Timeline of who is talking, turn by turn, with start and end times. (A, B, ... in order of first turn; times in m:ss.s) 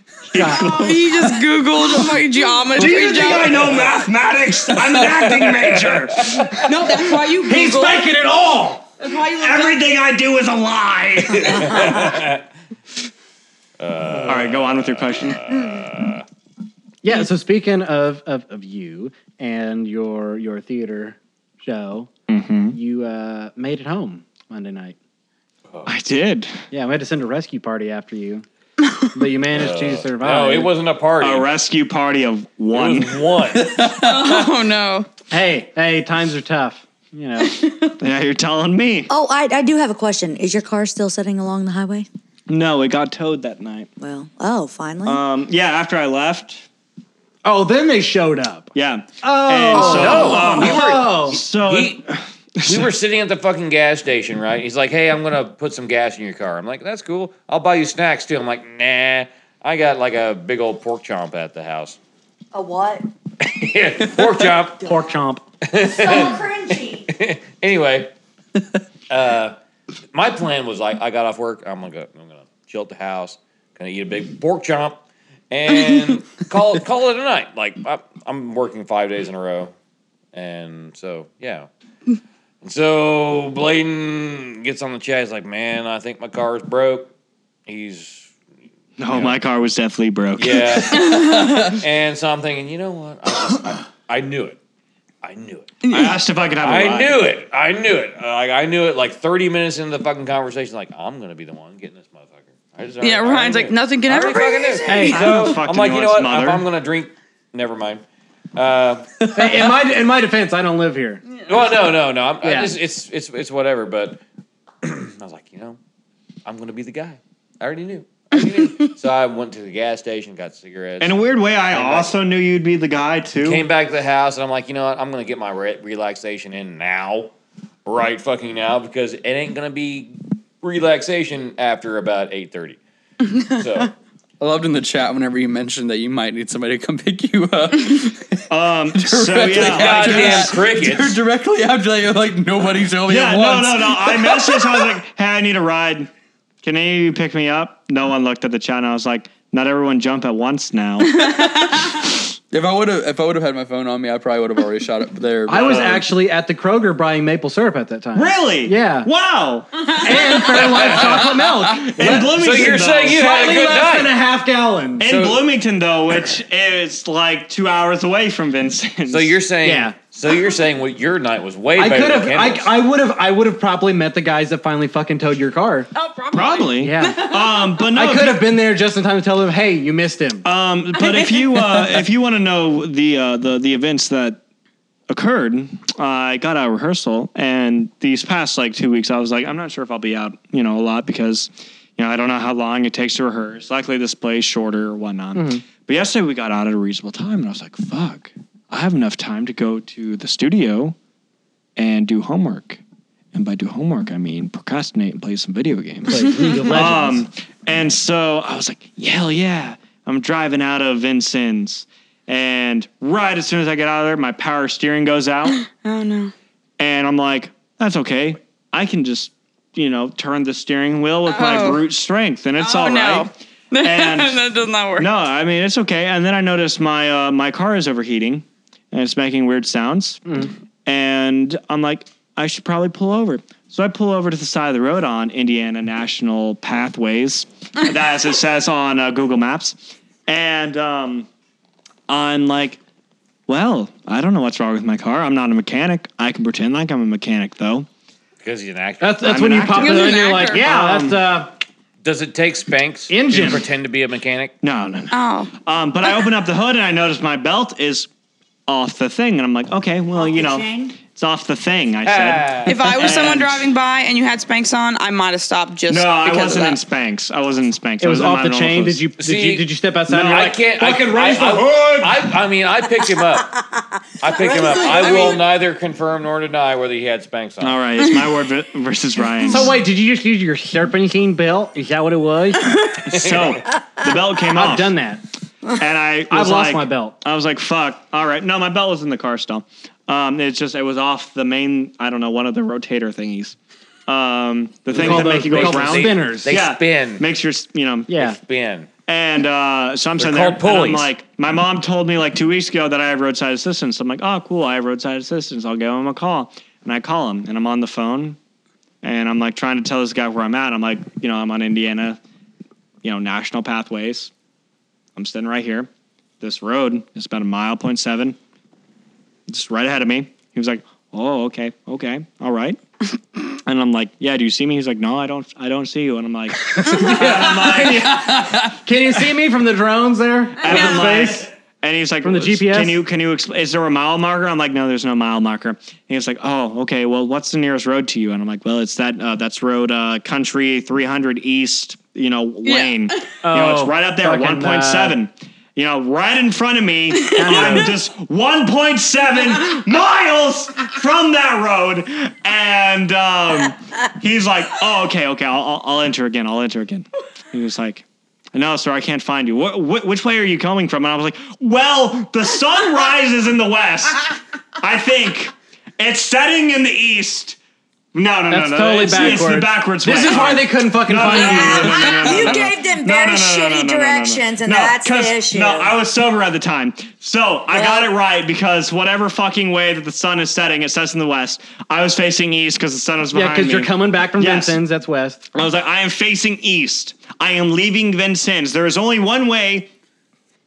0:00.3-0:01.1 A
0:00.4-0:00.7 B
0:00.5-0:03.7 C
0:02.7-0:06.8 A
0:05.0-0:06.8 D
0:06.6-0:08.1 C
0:06.9-0:08.9 B
0:09.0-0:09.8 C
0:09.3-0:12.1 A
0:11.4-0:12.4 D
0:13.8-0:16.2 D
0:14.2-0:15.5 A
0:17.0-0:22.1 B
0:22.3-0:22.8 A
0:22.7-0:25.0 B
0:25.9-0:26.6 A
0:26.7-0:28.4 B
0:29.1-0:30.7 B
0:29.5-0:31.5 D
0:31.2-0:33.2 A
0:32.7-0:33.8 D
0:33.6-0:34.3 E
0:33.8-0:35.1 C
0:35.3-0:37.6 B
0:37.6-0:37.9 C
0:38.0-0:39.1 A
0:39.1-0:42.1 F
0:42.5-0:43.9 A
0:44.0-0:45.2 F
0:45.0-0:46.6 A
0:47.4-0:51.4 B
0:48.8-0:52.9 A
0:49.7-0:52.0 D
0:52.6-1:02.0 D
1:02.5-1:03.1 F
1:03.4-1:04.9 D
1:04.8-1:05.4 B
1:04.8-1:05.1 F
1:05.6-1:08.1 D
1:05.8-1:07.1 F
1:09.1-1:09.6 D
1:10.1-1:19.7 D
1:20.3-1:21.7 D
1:22.6-1:27.1 D
1:27.7-1:28.3 D
1:29.0-1:31.1 A
1:29.1-1:29.4 D
1:30.4-1:34.6 D
1:30.9-1:31.8 C
1:35.2-1:35.8 D
1:35.8-1:36.2 C
1:35.9-1:37.2 A
1:36.6-1:48.0 D
1:43.0-1:45.3 C
1:44.9-1:45.5 B
1:44.9-1:46.6 A
1:48.6-1:49.0 D
1:49.3-1:51.2 B
1:51.5-1:54.2 D
1:52.4-1:52.7 B
1:54.8-1:55.8 D
1:56.4-2:02.2 D
2:01.0-2:03.6 A
2:03.4-2:07.3 D
2:07.9-2:12.8 D
2:13.5-2:13.9 D
2:14.4-2:24.8 E
2:18.5-2:20.5 A
2:19.5-2:21.2 D
2:23.1-2:26.1 A
2:26.6-2:31.6 A
2:31.2-2:31.8 C
2:32.5-2:36.0 E
2:35.5-2:39.1 B
2:35.6-2:36.0 A
2:38.2-2:40.0 A
2:39.9-2:42.4 B
2:40.6-2:41.2 A
2:40.6-2:41.2 D
2:41.8-2:43.3 A
2:42.1-2:44.2 D
2:43.0-2:45.1 B
2:45.0-2:49.4 A
2:45.0-2:45.5 D
2:49.1-2:52.7 D
2:49.6-2:50.0 B
2:51.8-2:55.9 B
2:56.0-2:57.8 C
2:56.3-2:58.4 A
2:56.8-2:57.2 B
2:57.9-3:00.4 B
3:00.4-3:04.4 A
3:01.0-3:01.8 C
3:05.1-3:21.0 A
3:15.4-3:15.6 B
3:21.8-3:22.8 A
3:23.3-3:35.6 A
3:26.1-3:27.2 B
3:35.6-3:36.3 C
3:36.8-3:44.4 A
3:41.3-3:41.9 C
3:42.6-3:45.1 C
3:45.0-3:50.3 A
3:50.8-4:01.3 A
4:02.1-4:02.8 A
4:03.5-4:07.9 A
4:08.4-4:09.5 D
4:09.0-4:11.5 B
4:09.2-4:11.2 A
4:09.8-4:10.7 C
4:12.0-4:14.5 D
4:13.1-4:13.6 B
4:14.6-4:18.1 A
4:15.1-4:15.5 C
4:18.7-4:23.7 A
4:20.2-4:21.0 F
4:22.0-4:23.1 D
4:22.7-4:26.8 C
4:25.9-4:29.0 A
4:28.0-4:32.1 B
4:29.2-4:33.6 D
4:34.2-4:37.8 D
4:34.4-4:35.4 F
4:37.6-4:39.7 A
4:39.4-4:42.8 B
4:43.0-4:44.9 A
4:43.1-4:43.6 D
4:44.5-4:45.2 B
4:45.7-4:58.1 A
4:46.3-4:47.2 B
4:54.9-4:57.2 D
4:54.9-4:56.6 B
4:58.1-4:58.4 B
4:58.1-4:58.9 D
4:59.1-5:08.4 A
5:00.2-5:01.1 D
5:09.0-5:12.2 A
5:13.0-5:14.3 A
5:15.2-5:15.9 A
5:16.4-5:18.4 A
5:19.5-5:22.8 A
5:23.5-5:28.3 A
5:26.8-5:31.5 B
5:30.6-6:07.6 A
5:30.7-5:31.2 C
5:32.2-5:33.0 B
5:42.6-5:43.0 C
5:43.4-5:45.2 B
5:47.3-5:47.8 C
5:47.3-5:47.9 B
6:08.1-6:24.8 A
6:08.5-6:12.7 B
6:11.3-6:16.0 F
6:17.7-6:18.1 F
6:23.3-6:25.5 B
6:25.5-6:29.9 A